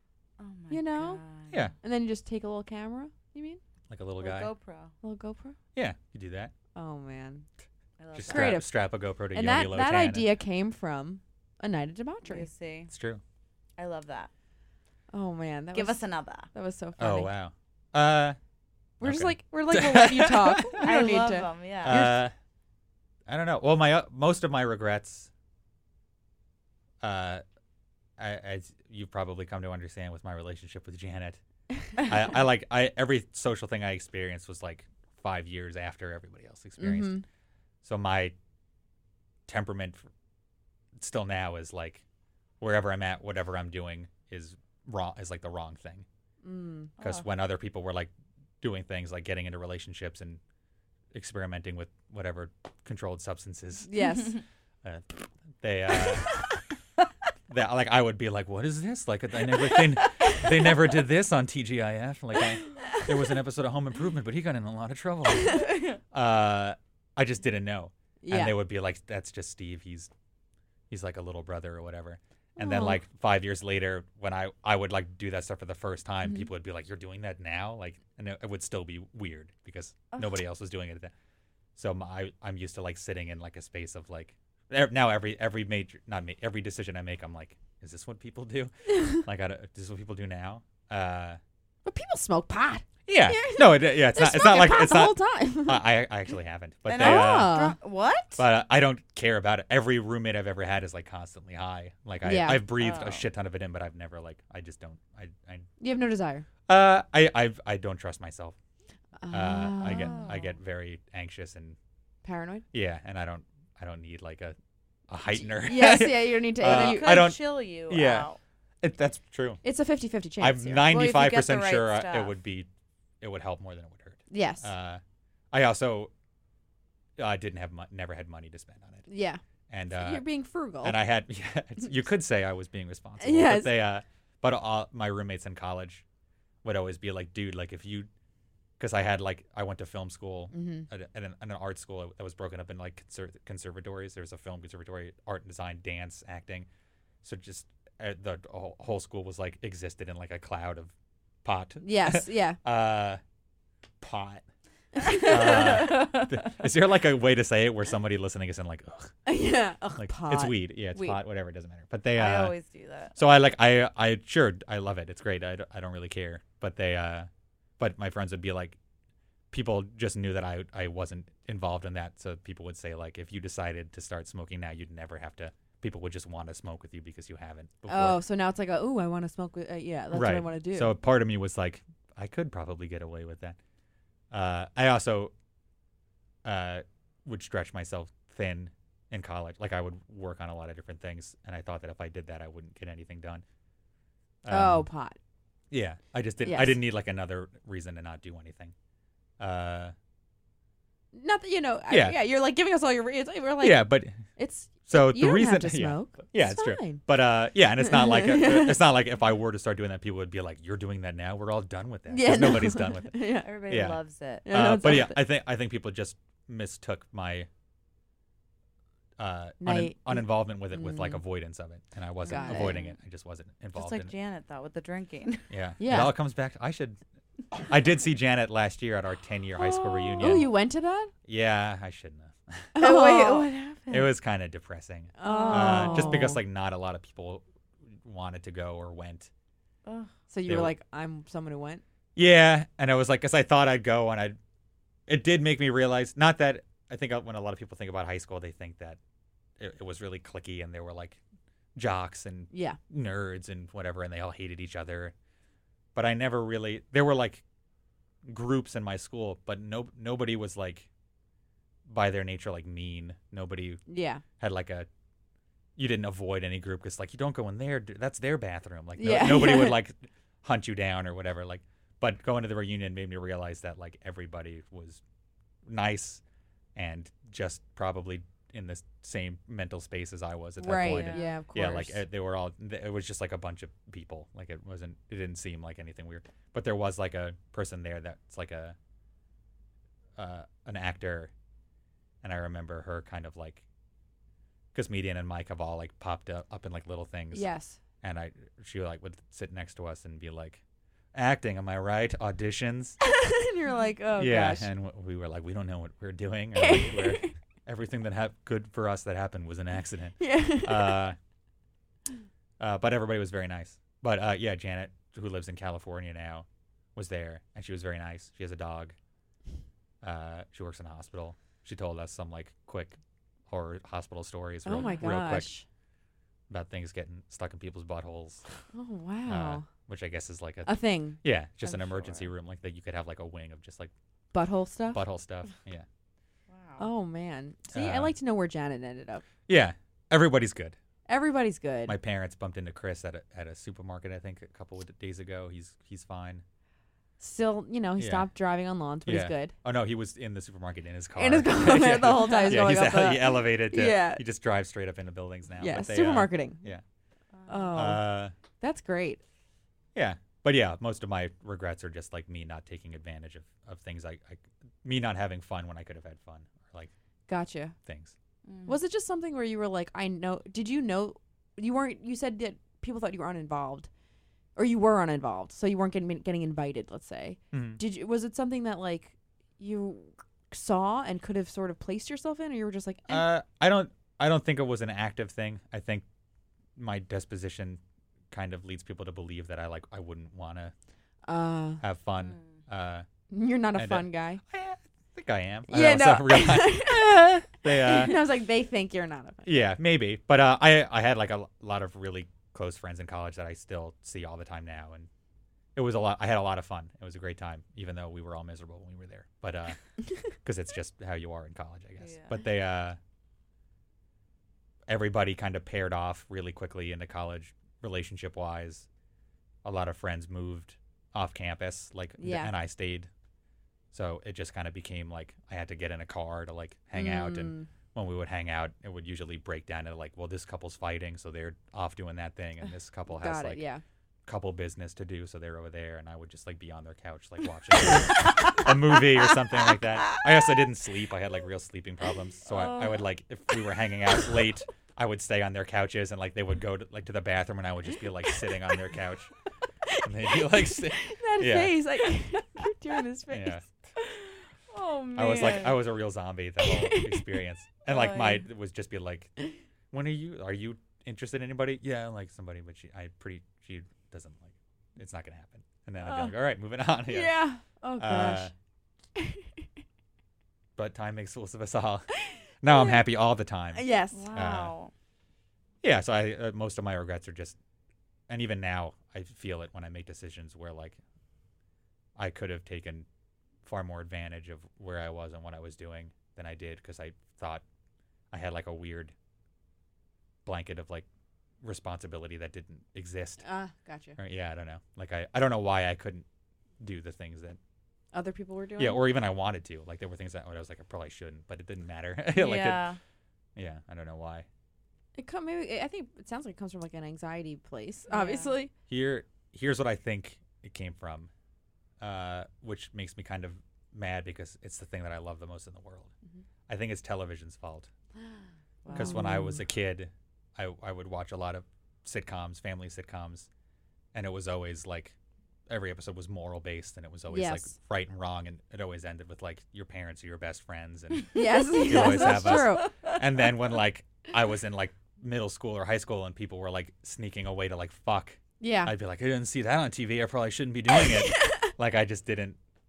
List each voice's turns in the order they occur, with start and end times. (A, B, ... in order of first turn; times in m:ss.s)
0:00.4-0:01.7 A
0:00.7-0:01.2 B
0:01.8-0:03.6 B
0:03.9-0:04.5 C
0:04.2-0:04.9 A
0:05.0-0:05.6 B
0:05.7-0:06.5 C
0:06.7-0:07.4 B
0:08.0-0:08.6 A
0:08.1-0:10.3 C
0:08.3-0:08.7 B
0:09.3-0:12.5 B
0:12.2-0:12.9 A
0:12.9-0:13.2 C
0:13.8-0:14.3 A
0:15.1-0:17.3 B
0:15.7-0:16.5 A
0:17.0-0:18.4 C
0:19.0-0:20.8 C
0:19.0-0:22.2 B
0:20.8-0:22.1 A
0:21.8-0:22.3 C
0:23.3-0:25.3 C
0:27.0-0:27.4 C
0:28.2-0:31.4 C
0:32.0-0:37.2 C
0:36.8-0:37.2 B
0:37.8-0:38.3 C
0:39.5-0:40.0 C
0:41.0-0:42.0 C
0:42.6-0:46.0 C
0:46.4-0:46.9 B
0:47.0-0:47.2 A
0:47.0-0:50.4 C
0:51.1-0:54.0 C
0:53.8-0:54.4 B
0:54.8-0:56.3 C
0:57.5-1:10.1 C
1:08.2-1:08.6 B
1:10.9-1:21.1 C
1:12.6-1:13.0 B
1:21.8-1:31.4 C
1:31.8-1:35.9 B
1:33.1-1:37.6 C
1:36.9-1:38.4 A
1:37.0-1:37.8 B
1:38.4-1:45.7 C
1:42.2-1:42.6 B
1:42.8-1:43.3 A
1:45.8-1:46.4 B
1:46.7-1:48.6 C
1:49.2-1:50.3 B
1:49.3-1:51.8 C
1:49.8-1:50.5 A
1:52.2-1:52.6 B
1:52.7-1:54.6 C
1:55.1-1:58.3 C
1:55.4-1:57.1 B
1:56.6-1:58.4 A
1:58.8-1:59.6 C
1:59.6-2:00.9 B
2:00.4-2:02.7 C
2:00.8-2:02.3 A
2:03.2-2:05.0 C
2:04.3-2:04.7 B
2:05.5-2:06.1 C
2:07.2-2:09.1 C
2:09.1-2:09.4 B
2:09.7-2:10.2 C
2:09.9-2:11.0 B
2:10.8-2:16.0 C
2:13.2-2:13.8 B
2:16.6-2:18.1 C
2:18.8-2:26.7 C
2:20.5-2:20.9 B
2:27.2-2:30.9 C
2:31.4-2:33.2 C
2:31.8-2:32.6 B
2:34.0-2:34.4 C
2:35.0-2:35.6 B
2:35.0-2:36.5 A
2:35.1-2:39.2 C
2:39.2-2:41.2 B
2:40.0-2:42.5 C
2:42.2-2:43.2 A
2:43.2-2:48.8 C
2:49.5-2:58.2 C
2:57.9-3:01.0 B
3:00.1-3:03.6 C
3:04.3-3:05.3 C
3:06.4-3:13.4 C
3:14.4-3:14.9 C
3:14.5-3:15.2 B
3:15.7-3:18.7 C
3:16.4-3:16.8 B
3:19.4-3:19.9 C
3:21.1-3:27.0 B
3:21.9-3:22.2 C
3:23.6-3:24.2 C
3:24.9-3:37.5 C
3:27.8-3:28.8 B
3:32.1-3:33.6 B
3:33.4-3:34.4 A
3:34.4-3:35.2 B
3:39.2-3:44.1 C
3:39.6-3:41.2 B
3:42.2-3:42.9 A
3:42.3-3:42.8 B
3:43.7-3:45.5 A
3:45.5-3:47.0 C
3:45.8-3:46.1 B
3:47.6-3:50.5 C
3:50.2-3:51.1 B
3:51.2-3:52.7 C
3:52.7-3:53.5 B
3:52.8-3:54.1 A
3:53.9-3:59.3 C
3:55.2-3:56.4 B
3:55.2-3:56.3 A
3:59.8-4:00.1 A
4:00.3-4:01.8 B
4:00.4-4:00.7 C
4:02.2-4:04.4 C
4:05.1-4:09.0 C
4:09.6-4:11.2 C
4:11.8-4:15.1 C
4:12.5-4:12.8 B
4:15.9-4:17.4 C
4:18.2-4:20.9 C
4:21.9-4:23.8 C
4:23.9-4:24.2 B
4:24.4-4:24.9 C
4:25.8-4:35.0 C
4:29.0-4:29.8 B
4:35.6-4:36.2 C
4:36.7-4:48.8 C
4:40.6-4:42.0 B
4:40.8-4:41.3 A
4:50.2-4:51.3 C
4:52.2-4:53.6 C
4:54.7-4:57.5 C
4:57.3-4:57.8 B
4:58.0-5:00.6 C
5:01.1-5:03.0 C
5:03.1-5:04.7 B
5:04.2-5:11.2 C
5:06.5-5:07.3 B
5:10.2-5:11.1 B
5:12.6-5:18.9 C
5:20.0-5:25.5 C
5:24.6-5:25.6 B
5:24.8-5:25.1 A
5:26.5-5:28.5 C
5:28.7-5:29.6 B
5:29.3-5:33.9 C
5:30.6-5:31.2 B
5:31.8-5:32.2 A
5:34.3-5:35.0 B
5:34.9-5:35.8 C
5:36.5-5:36.8 A
5:36.8-5:39.2 B
5:37.7-5:38.1 C
5:39.5-5:40.8 C
5:41.1-5:42.0 B
5:41.8-5:46.4 C
5:47.2-5:49.5 B
5:48.0-5:48.3 C
5:49.0-5:56.8 C
5:51.2-5:54.2 B
5:52.3-5:52.6 A
5:55.6-5:56.6 B
5:57.3-5:57.8 A
5:57.5-5:58.1 B
5:57.7-5:58.3 C
5:58.6-5:59.2 B
5:59.9-6:06.9 C
6:07.3-6:07.8 B
6:07.8-6:08.1 C
6:08.4-6:08.8 A
6:08.6-6:13.9 B
6:14.6-6:23.3 B
6:17.5-6:17.8 C
6:23.1-6:26.0 C
6:26.8-6:27.8 C
6:28.3-6:30.7 C
6:31.2-6:31.8 B
6:31.8-6:33.0 C
6:32.2-6:32.5 A
6:33.3-6:34.4 B
6:33.7-6:38.2 C
6:35.7-6:39.6 B
6:39.4-6:45.1 C
6:45.7-6:49.8 C
6:50.3-6:53.0 C
6:52.0-6:52.4 A
6:54.9-6:58.9 C
6:59.6-7:03.1 C
7:02.2-7:02.5 B
7:03.9-7:13.6 C
7:06.9-7:07.7 B
7:13.1-7:13.8 B
7:14.2-7:29.3 C
7:22.5-7:23.0 A
7:29.9-7:33.6 B
7:30.0-7:31.8 C
7:33.3-7:33.7 C
7:34.7-7:35.8 A
7:35.1-7:39.3 C
7:36.6-7:37.3 B
7:37.8-7:38.4 A
7:39.9-7:47.4 C
7:46.0-7:46.3 A
7:47.1-7:48.5 B
7:48.0-7:48.5 C
7:50.8-7:52.1 C
7:52.6-7:54.7 C
7:52.6-7:53.0 B
7:53.7-7:54.2 B
7:54.1-7:54.9 A
7:55.8-7:57.6 C
7:58.3-8:01.0 C
8:02.2-8:03.0 C
8:03.6-8:07.6 C
8:08.3-8:09.1 C
8:10.4-8:11.0 C
8:11.6-8:13.4 C
8:13.4-8:14.2 B
8:14.2-8:16.2 C
8:16.8-8:17.6 C
8:18.1-8:19.0 B
8:18.8-8:22.9 C
8:22.3-8:23.0 A
8:23.6-8:24.5 C
8:25.2-8:28.7 B
8:28.1-8:28.5 A
8:28.9-8:31.3 C
8:32.0-8:36.1 C
8:36.7-8:37.9 C
8:38.8-8:39.2 A
8:38.9-8:39.6 B
8:38.9-8:43.5 C
8:44.1-8:45.2 C
8:45.7-9:02.6 C
8:47.3-8:47.7 B
8:51.3-8:52.9 B
8:51.9-8:53.1 A
8:58.6-8:58.9 B
9:01.3-9:01.7 B